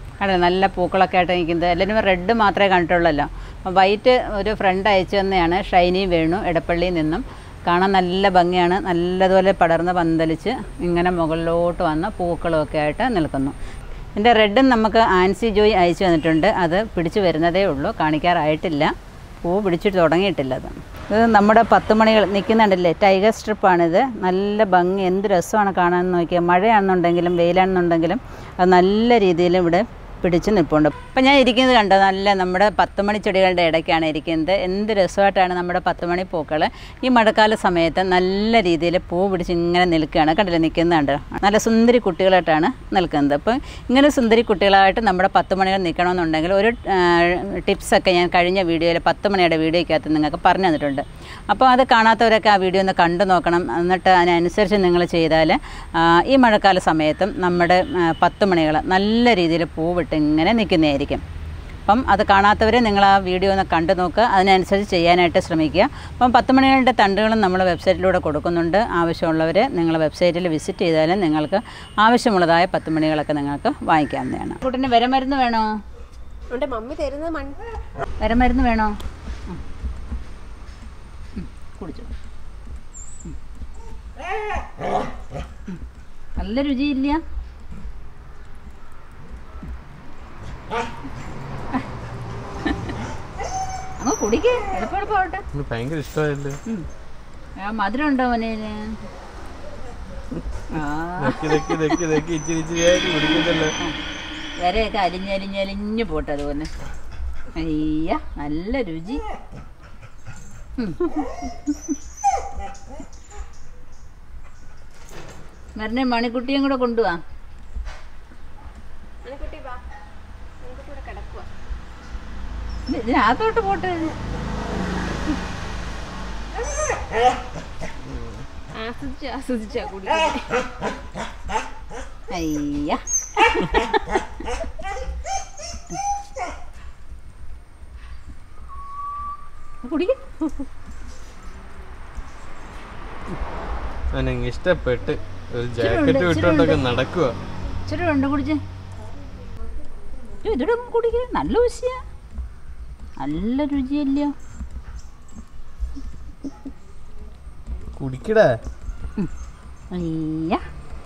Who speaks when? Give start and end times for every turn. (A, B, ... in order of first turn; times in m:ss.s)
0:00.2-0:13.5 A
0:14.2-1:01.2 A
1:01.9-1:15.8 A
1:16.5-1:17.6 B
1:18.2-1:19.0 A
1:21.4-1:22.1 A
1:26.4-1:27.2 A
1:32.6-1:33.0 A
1:34.0-1:35.4 A
1:35.5-1:36.6 C
1:37.6-1:39.0 A
1:40.7-1:42.0 A
1:41.2-1:43.7 C
1:44.6-1:46.7 A
1:47.6-1:49.2 A
1:50.8-1:52.0 A
1:55.8-1:57.2 A
1:59.2-1:59.8 B
2:00.6-2:01.5 B
2:02.9-2:04.2 A
2:08.7-2:10.7 B
2:12.3-2:14.2 A
2:19.8-2:20.7 A
2:24.1-2:27.3 C
2:25.8-2:26.8 A
2:27.9-2:28.6 A
2:30.4-2:32.0 A
2:33.2-2:34.3 A
2:38.0-2:38.5 C
2:39.9-2:40.6 A